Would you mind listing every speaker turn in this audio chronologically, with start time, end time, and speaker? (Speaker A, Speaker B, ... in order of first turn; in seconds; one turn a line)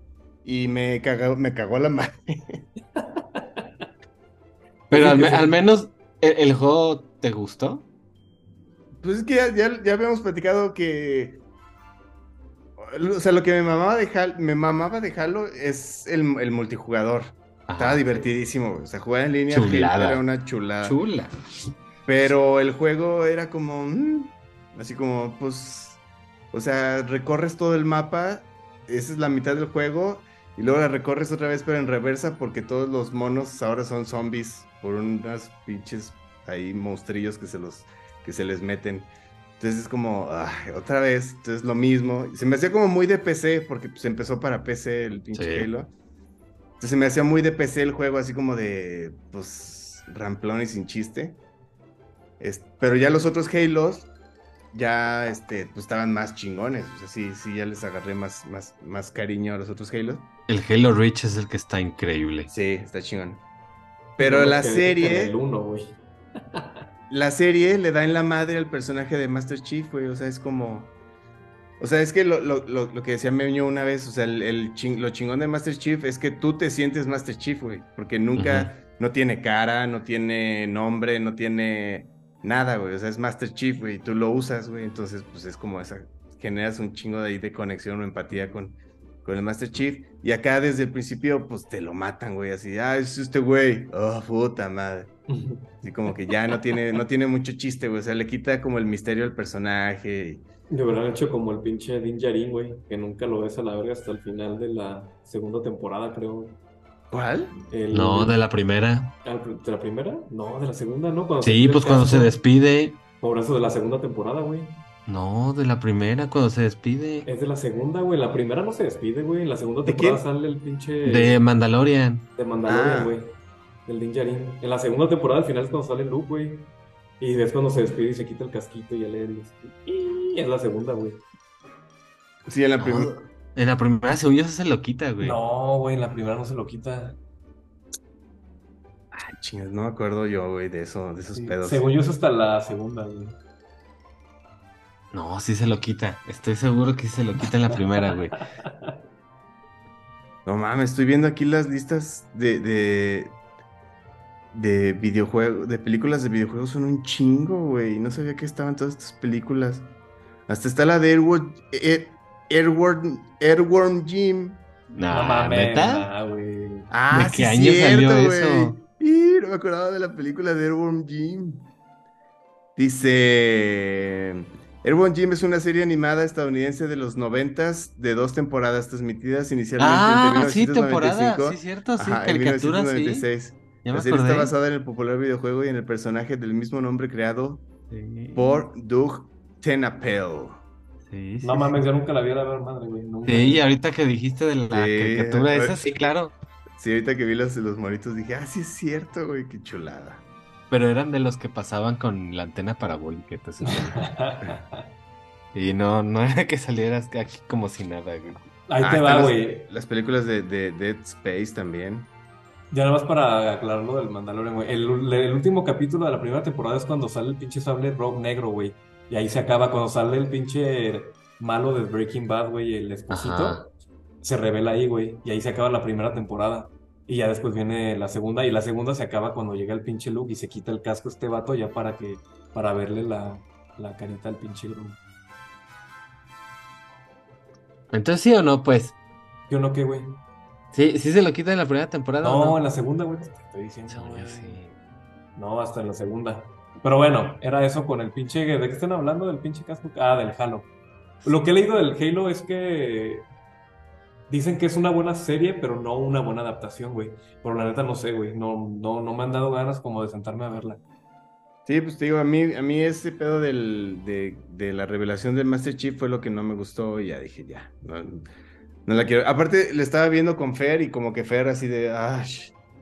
Speaker A: 0.4-2.6
Speaker B: 3.0-3.6
Speaker C: 4.9-7.9
Speaker B: 4.9-5.5
Speaker A: 9.0-11.4
Speaker A: 12.8-21.0
Speaker C: 17.7-18.3
Speaker C: 19.5-20.2
Speaker C: 20.8-21.7
Speaker A: 22.1-26.0
Speaker A: 26.5-45.9
Speaker C: 45.3-45.7
Speaker A: 46.8-51.4
Speaker A: 52.4-54.1
Speaker A: 54.7-60.3
Speaker C: 60.5-62.5
Speaker A: 62.5-63.4
Speaker A: 64.2-65.4
Speaker B: 64.2-66.0
Speaker A: 67.1-70.9
Speaker A: 71.8-95.1
Speaker C: 78.4-78.7
Speaker B: 95.3-95.8
Speaker A: 95.8-100.4
Speaker B: 100.7-106.6
Speaker A: 107.1-107.5
Speaker B: 107.7-108.4
Speaker C: 107.9-109.1
Speaker B: 109.2-112.3
Speaker C: 111.4-113.0
Speaker B: 113.2-114.8
Speaker C: 115.1-117.3
Speaker B: 117.3-121.4
Speaker A: 119.8-120.2
Speaker C: 121.0-122.3
Speaker B: 122.4-123.3
Speaker A: 122.7-123.2
Speaker B: 123.9-126.7
Speaker B: 127.2-131.2
Speaker A: 132.5-133.1
Speaker C: 132.8-135.4
Speaker B: 135.2-137.2
Speaker A: 139.1-141.8
Speaker B: 141.3-143.4
Speaker C: 145.1-148.4
Speaker A: 150.5-153.4
Speaker A: 154.5-159.9
Speaker A: 160.5-164.6
Speaker C: 164.9-166.1
Speaker B: 165.1-166.9
Speaker A: 166.9-171.7
Speaker C: 167.1-168.8
Speaker A: 172.8-187.7
Speaker C: 179.8-183.3
Speaker C: 183.8-184.5
Speaker C: 187.9-188.7
Speaker A: 188.3-190.6
Speaker C: 191.1-191.8
Speaker B: 191.4-193.6
Speaker C: 193.3-196.3
Speaker A: 194.7-195.8
Speaker A: 196.8-200.2
Speaker C: 200.7-204.1
Speaker B: 203.7-204.9
Speaker C: 205.5-208.5
Speaker B: 208.7-209.7
Speaker A: 208.8-212.1
Speaker B: 212.7-223.7
Speaker C: 223.1-223.7
Speaker B: 224.2-235.0
Speaker C: 237.9-239.0
Speaker B: 239.5-240.2
Speaker C: 240.7-242.6
Speaker B: 242.2-244.6
Speaker C: 243.9-244.8
Speaker B: 245.4-250.7
Speaker B: 251.2-253.3
Speaker B: 254.3-260.8
Speaker A: 261.7-268.3
Speaker A: 268.9-272.6